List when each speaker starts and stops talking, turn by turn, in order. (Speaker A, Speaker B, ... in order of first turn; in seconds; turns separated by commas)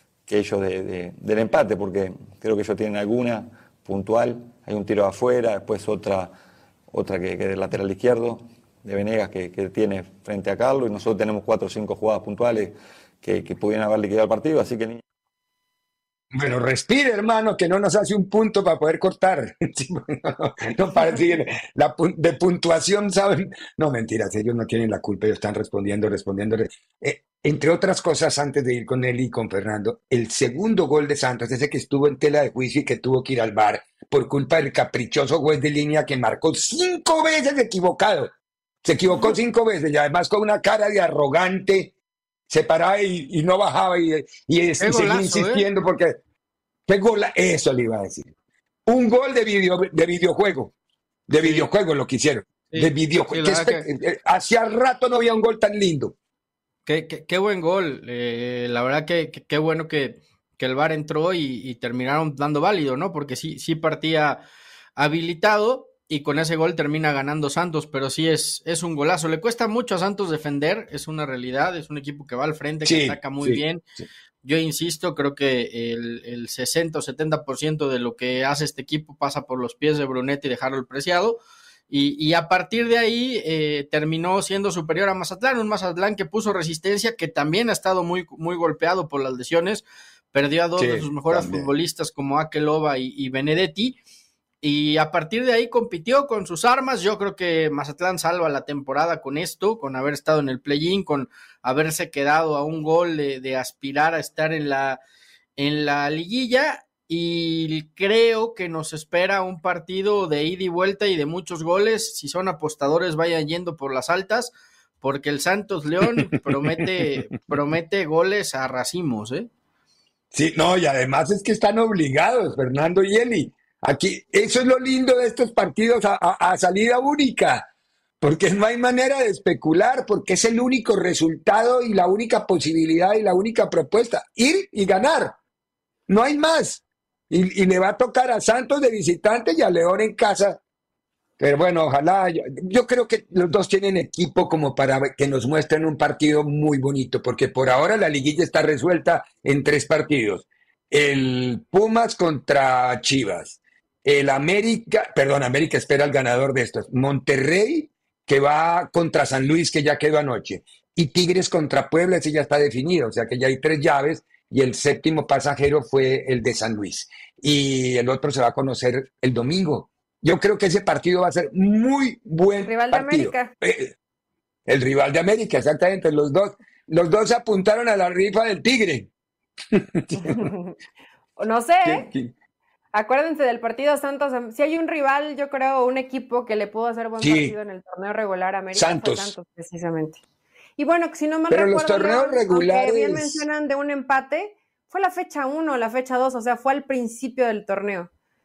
Speaker A: 0.3-6.3, Speaker A: 6.9-15.0, Speaker B: 16.3-38.3, Speaker B: 38.8-41.9, Speaker B: 42.5-46.2, Speaker C: 44.8-45.6, Speaker B: 46.9-48.3, Speaker B: 48.9-50.7, Speaker B: 51.3-56.1, Speaker C: 51.4-51.7, Speaker C: 52.7-53.8, Speaker C: 56.9-64.4, Speaker C: 65.0-73.8, Speaker B: 72.8-74.0, Speaker C: 74.4-81.4, Speaker C: 81.9-94.0, Speaker B: 90.8-91.7, Speaker C: 94.6-105.0, Speaker C: 105.6-119.5, Speaker B: 120.3-127.7, Speaker B: 128.2-135.3, Speaker B: 136.1-140.6, Speaker B: 141.4-173.9, Speaker D: 172.6-173.5, Speaker B: 174.7-179.1, Speaker B: 179.7-180.5, Speaker D: 180.2-180.7, Speaker D: 181.4-182.1, Speaker B: 181.8-182.3, Speaker D: 182.9-190.2, Speaker B: 187.2-187.5, Speaker B: 188.7-189.3, Speaker D: 190.8-198.1, Speaker B: 191.5-193.4